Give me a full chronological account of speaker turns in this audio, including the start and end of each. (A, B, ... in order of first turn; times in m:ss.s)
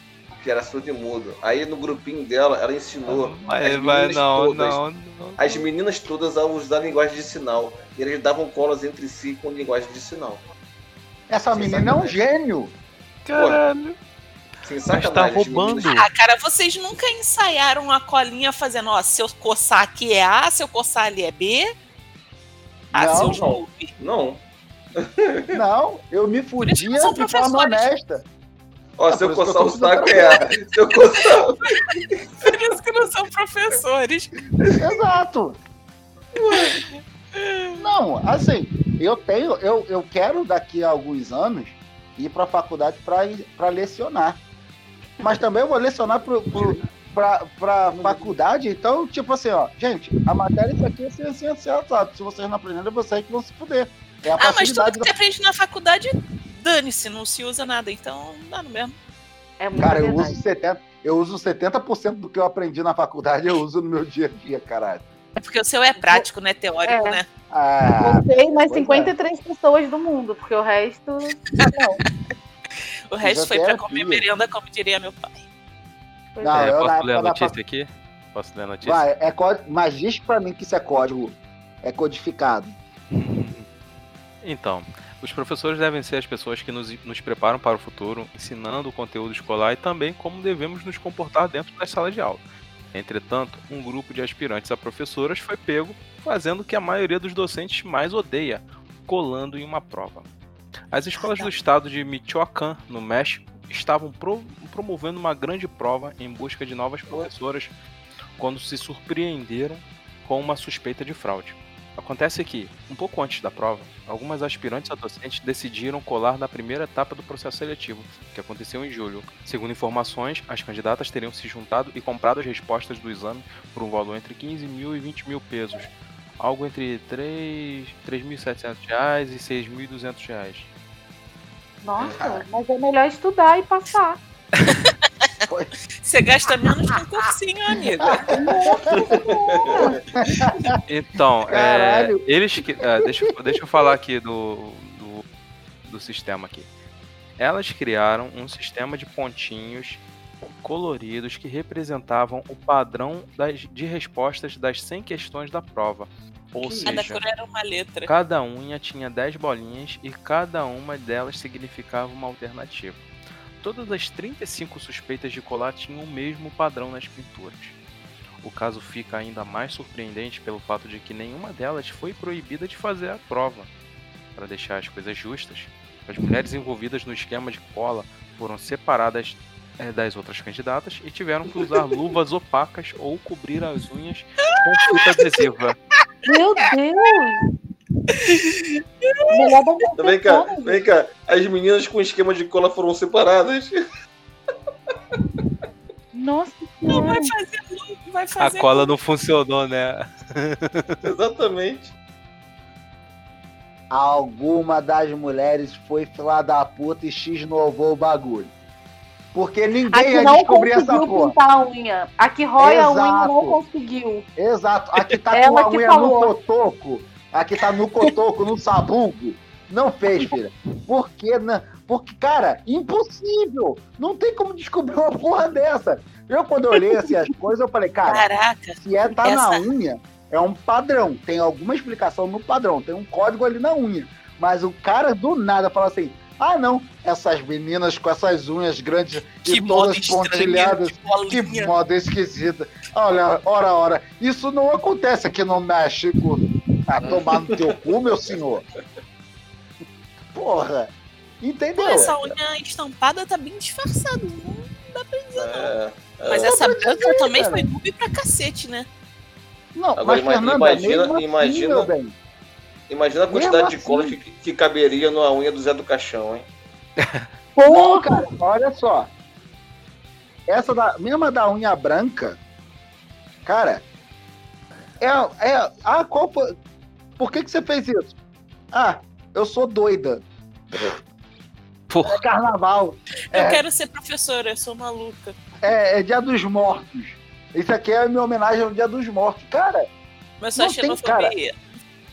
0:00.4-0:04.8 A
0:03.0-0:05.7 B
0:05.4-0:10.4 A
0:11.3-0:12.7 C
0:11.5-0:12.2 A
0:13.2-0:14.0 B
0:13.3-0:13.6 A
0:14.6-0:15.9 A
0:14.9-0:16.1 B
0:15.9-0:21.7 D
0:22.9-0:23.4 C
0:22.9-0:23.9 D
0:23.3-0:24.4 A
0:25.0-0:25.6 A
0:25.5-0:28.2 C
0:26.6-0:27.9 D
0:29.0-0:31.9 A
0:29.1-0:30.5 C
0:31.7-0:34.3 D
0:34.8-0:35.6 C
0:36.4-0:36.8 A
0:36.5-0:37.8 D
0:37.8-0:44.4 C
0:45.2-0:55.1 C
0:46.5-0:46.8 A
0:48.0-0:48.3 A
0:54.4-0:58.9 D
0:59.6-1:00.4 E
0:59.8-1:05.0 C
1:05.4-1:07.3 D
1:06.8-1:07.2 E
1:07.5-1:09.1 C
1:08.0-1:12.0 E
1:11.6-1:12.1 D
1:13.1-1:15.5 D
1:13.2-1:14.2 C
1:16.4-1:16.7 E
1:16.4-1:17.5 C
1:16.5-1:19.0 B
1:18.8-1:22.8 C
1:23.1-1:23.6 B
1:24.4-1:40.3 B
1:40.9-1:47.7 B
1:48.4-2:10.7 B
2:11.8-2:14.2 E
2:16.0-2:18.2 D
2:18.0-2:19.2 C
2:18.3-2:20.0 E
2:18.9-2:19.9 A
2:20.1-2:20.8 C
2:20.9-2:25.2 B
2:21.5-2:22.2 C
2:23.0-2:23.3 C
2:25.8-2:26.7 B
2:27.4-2:30.0 B
2:30.6-2:37.2 B
2:36.8-2:38.1 D
2:38.0-2:43.0 B
2:43.6-2:47.8 B
2:48.4-2:53.7 B
2:54.4-3:05.8 B
3:04.9-3:05.2 D
3:06.2-3:07.4 E
3:08.1-3:09.5 D
3:09.3-3:10.8 E
3:10.0-3:13.8 A
3:16.1-3:17.3 E
3:16.9-3:18.9 D
3:18.4-3:21.0 B
3:21.0-3:21.9 A
3:23.9-3:28.5 C
3:29.3-3:31.3 C
3:29.9-3:34.2 E
3:32.6-3:33.6 C
3:34.4-3:48.2 C
3:35.3-3:36.3 E
3:48.1-3:49.6 D
3:48.8-4:08.6 C
3:59.4-4:01.7 D
4:07.0-4:07.8 A
4:10.3-4:12.3 C
4:11.8-4:15.7 D
4:15.3-4:16.5 A
4:16.3-4:18.9 D
4:16.4-4:17.7 C
4:19.7-4:22.2 C
4:20.0-4:21.9 A
4:22.9-4:26.5 A
4:23.3-4:24.2 C
4:27.0-4:27.2 B
4:27.6-4:28.2 E
4:27.6-4:29.1 C
4:30.5-4:32.4 C
4:33.4-4:33.8 C
4:35.0-4:36.5 C
4:37.2-4:38.1 C
4:38.7-4:40.9 C
4:41.9-4:42.2 B
4:42.0-4:43.6 C
4:43.3-4:45.4 D
4:45.6-4:49.9 C
4:50.4-4:51.6 D
4:50.5-4:51.3 C